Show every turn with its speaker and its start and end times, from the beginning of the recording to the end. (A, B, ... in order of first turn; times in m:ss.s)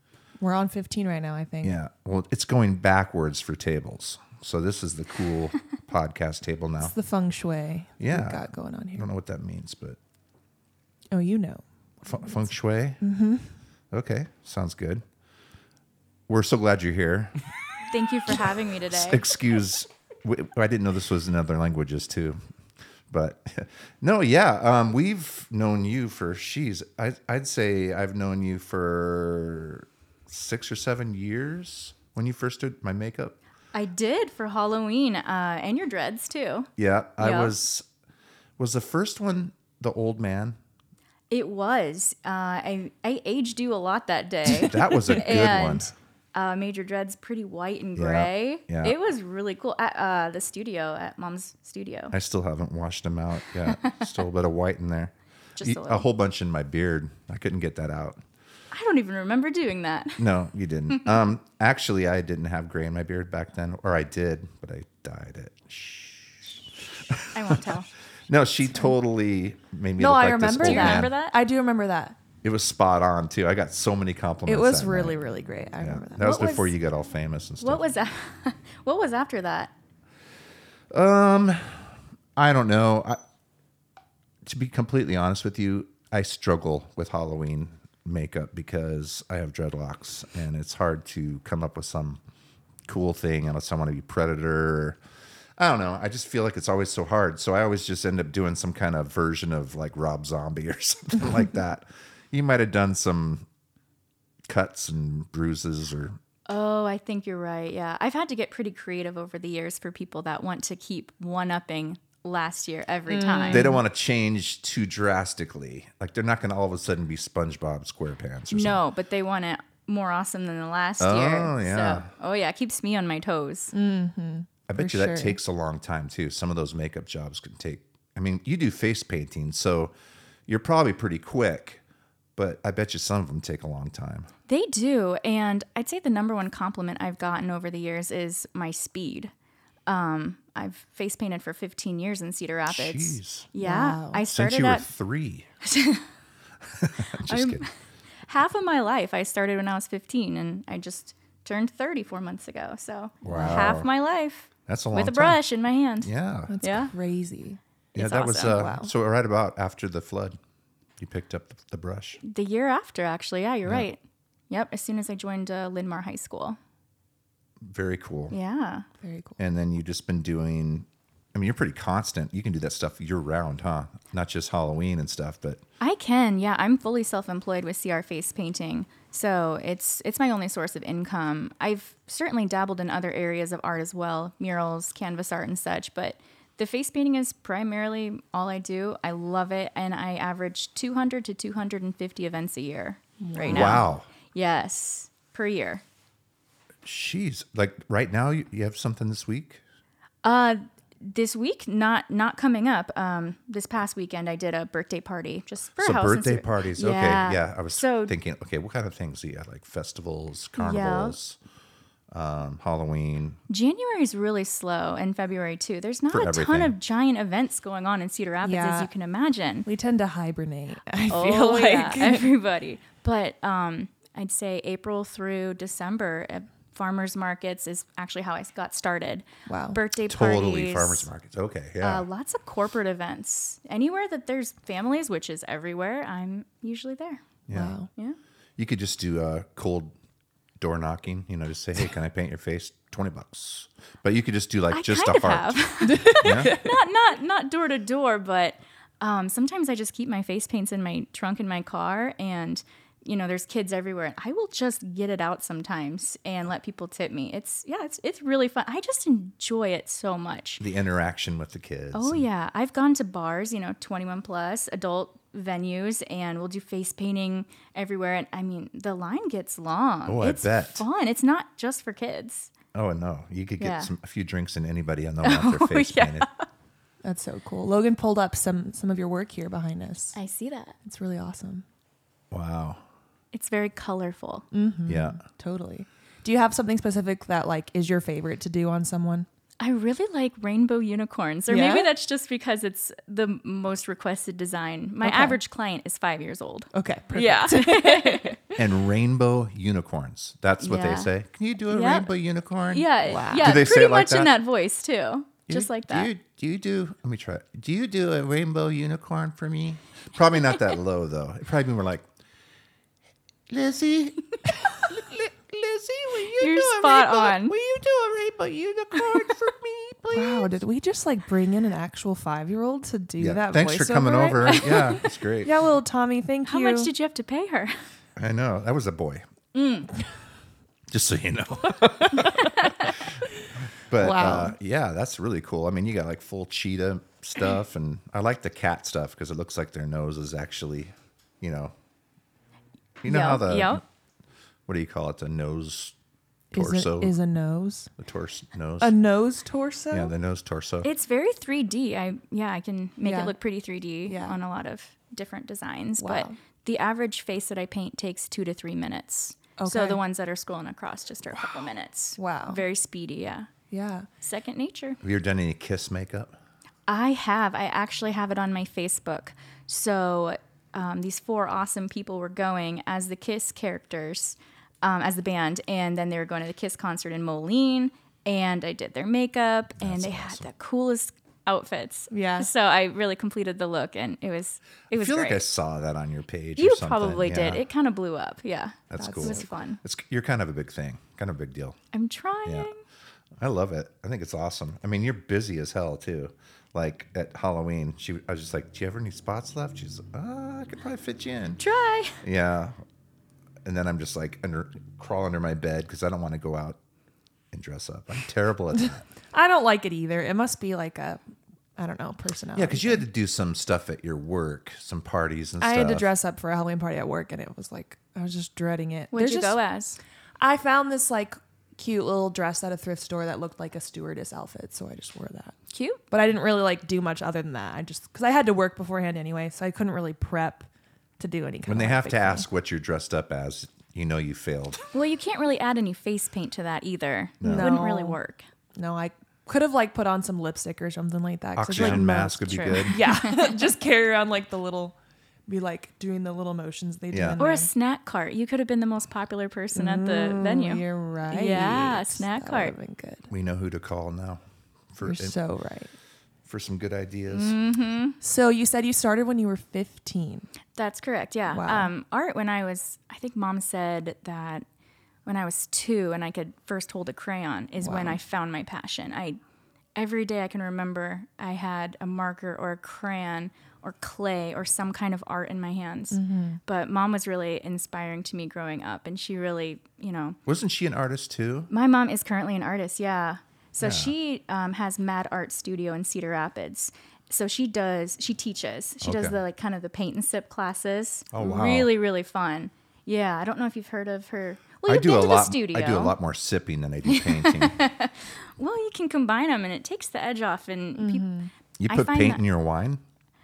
0:00.4-0:01.8 A
0:01.6-0:06.9 B
0:06.8-0:09.1 A
0:08.0-0:10.0 B
0:11.1-0:12.4 A
0:12.0-0:13.0 B
0:13.0-0:13.5 A
0:13.9-0:15.0 B
0:16.3-0:17.3 B
0:17.9-0:19.2 C
0:18.9-0:22.4 B
0:23.1-0:33.4 B
0:33.7-0:37.5 C
0:36.8-0:37.8 B
0:38.6-0:40.6 B
0:41.3-0:52.1 C
0:44.6-0:45.9 B
0:48.0-0:49.0 B
0:52.1-0:58.2 B
0:55.6-0:56.0 C
0:58.7-1:00.2 C
1:00.2-1:11.1 B
1:07.3-1:07.9 C
1:10.0-1:12.2 A
1:10.5-1:11.4 C
1:12.4-1:17.8 B
1:14.4-1:16.2 A
1:16.2-1:16.7 C
1:17.6-1:19.7 C
1:20.9-1:23.2 B
1:24.4-1:32.2 B
1:32.8-1:35.0 B
1:35.6-1:43.4 B
1:44.5-1:46.2 B
1:46.5-1:53.7 C
1:53.1-1:53.8 A
1:53.5-1:58.8 B
1:58.5-2:03.7 C
2:01.0-2:02.1 B
2:03.7-2:05.4 A
2:04.7-2:09.9 B
2:10.5-2:11.8 B
2:12.4-2:14.3 B
2:14.5-2:19.3 C
2:19.9-2:24.9 C
2:22.7-2:23.5 B
2:23.6-2:24.2 A
2:24.3-2:25.5 B
2:25.6-2:26.0 C
2:26.8-2:27.6 B
2:27.3-2:27.7 C
2:28.2-2:36.1 C
2:33.2-2:33.9 B
2:33.2-2:33.6 A
2:34.6-2:35.4 B
2:36.0-2:36.6 B
2:36.5-2:37.6 A
2:36.6-2:36.9 C
2:37.9-2:38.6 C
2:37.9-2:40.4 B
2:38.4-2:38.9 A
2:41.0-2:42.2 B
2:42.2-2:44.0 C
2:44.5-2:46.6 C
2:47.6-2:48.4 B
2:48.3-2:48.8 C
2:49.0-2:49.4 A
2:49.4-2:55.6 B
2:55.8-3:15.8 C
3:13.2-3:13.8 A
3:13.5-3:14.1 B
3:16.8-3:19.6 B
3:20.2-3:28.1 C
3:25.8-3:31.4 B
3:30.6-3:31.2 C
3:32.1-3:33.4 B
3:33.5-3:39.6 C
3:36.1-3:36.7 B
3:38.4-3:38.9 A
3:39.6-3:42.3 A
3:41.1-3:51.1 C
3:49.5-3:49.8 A
3:50.1-3:52.0 B
3:51.8-3:57.2 C
3:57.5-3:57.7 B
3:57.5-3:57.9 A
3:58.6-3:59.9 B
4:00.6-4:05.6 B
4:04.7-4:20.6 C
4:05.8-4:06.7 A
4:06.2-4:06.5 B
4:20.6-4:22.2 B
4:21.9-4:32.5 C
4:30.0-4:30.8 B
4:32.7-4:36.3 B
4:33.6-4:33.9 C
4:35.2-4:36.4 C
4:37.0-4:40.2 A
4:40.2-4:40.8 C
4:40.8-4:41.6 A
4:42.3-4:42.8 B
4:43.3-4:44.5 C
4:44.5-4:49.2 A
4:44.9-4:45.2 B
4:49.6-4:58.4 C
4:51.5-4:51.9 A
4:55.0-4:55.4 A
4:56.7-4:58.4 A
4:58.6-5:04.3 B
5:00.6-5:01.1 C
5:01.7-5:02.1 C
5:02.7-5:06.1 C
5:03.0-5:03.6 A
5:05.5-5:12.0 B
5:13.5-5:20.6 B
5:16.4-5:17.5 C
5:20.1-5:26.9 A
5:23.2-5:25.5 B
5:24.5-5:25.0 C
5:26.5-5:27.7 C
5:28.2-5:29.2 B
5:29.5-5:29.9 C
5:30.9-5:32.5 B
5:32.4-5:32.9 C
5:33.9-5:41.7 B
5:34.0-5:34.5 A
5:43.0-5:43.8 B
5:43.0-5:43.8 C
5:44.7-5:46.0 B
5:46.5-5:47.1 B
5:46.5-5:47.9 A
5:48.0-5:48.9 B
5:48.8-5:50.1 A
5:49.9-5:50.9 B
5:50.8-6:03.5 C
5:53.0-5:53.3 A
5:54.0-5:54.4 A
5:56.0-5:56.4 A
5:59.6-6:00.0 A
6:02.2-6:02.6 A
6:03.7-6:04.1 A
6:04.2-6:05.0 C
6:05.0-6:06.4 B
6:06.9-6:25.4 C
6:19.8-6:20.5 B
6:22.1-6:22.5 A
6:24.9-6:27.6 B
6:26.6-6:29.8 C
6:28.9-6:31.8 B
6:29.0-6:29.5 A
6:31.9-6:32.8 C
6:33.4-6:41.6 B
6:41.6-6:42.2 C
6:42.2-6:42.8 B
6:43.6-6:46.8 B
6:47.5-6:49.0 B
6:49.3-6:51.2 A
6:51.8-6:53.0 A
6:52.5-6:56.1 B
6:55.6-6:59.6 A
6:59.1-7:00.0 C
7:00.4-7:05.5 A
7:05.7-7:06.0 C
7:06.1-7:10.7 A
7:11.2-7:12.4 A
7:11.6-7:14.8 B
7:14.9-7:18.4 C
7:17.4-7:17.7 B
7:17.4-7:18.2 A
7:18.7-7:24.9 A
7:21.6-7:23.0 B
7:21.8-7:23.5 C
7:25.5-7:27.7 A
7:27.1-7:27.4 B
7:27.4-7:32.7 C
7:29.7-7:33.3 A
7:33.3-7:35.4 B
7:35.0-7:35.9 A
7:36.4-7:37.6 B
7:37.3-7:38.2 C
7:38.2-7:40.5 A
7:40.8-7:44.6 C
7:41.5-7:41.9 A
7:45.2-7:49.4 C
7:47.8-7:48.2 A
7:50.0-8:00.4 C
7:56.1-7:56.6 A
8:00.4-8:01.7 B
8:01.7-8:16.1 C
8:03.8-8:04.1 B
8:09.0-8:09.4 B
8:11.3-8:11.9 B
8:14.9-8:17.8 B
8:17.1-8:21.3 C
8:21.0-8:21.5 A
8:21.8-8:23.0 B
8:21.9-8:22.4 C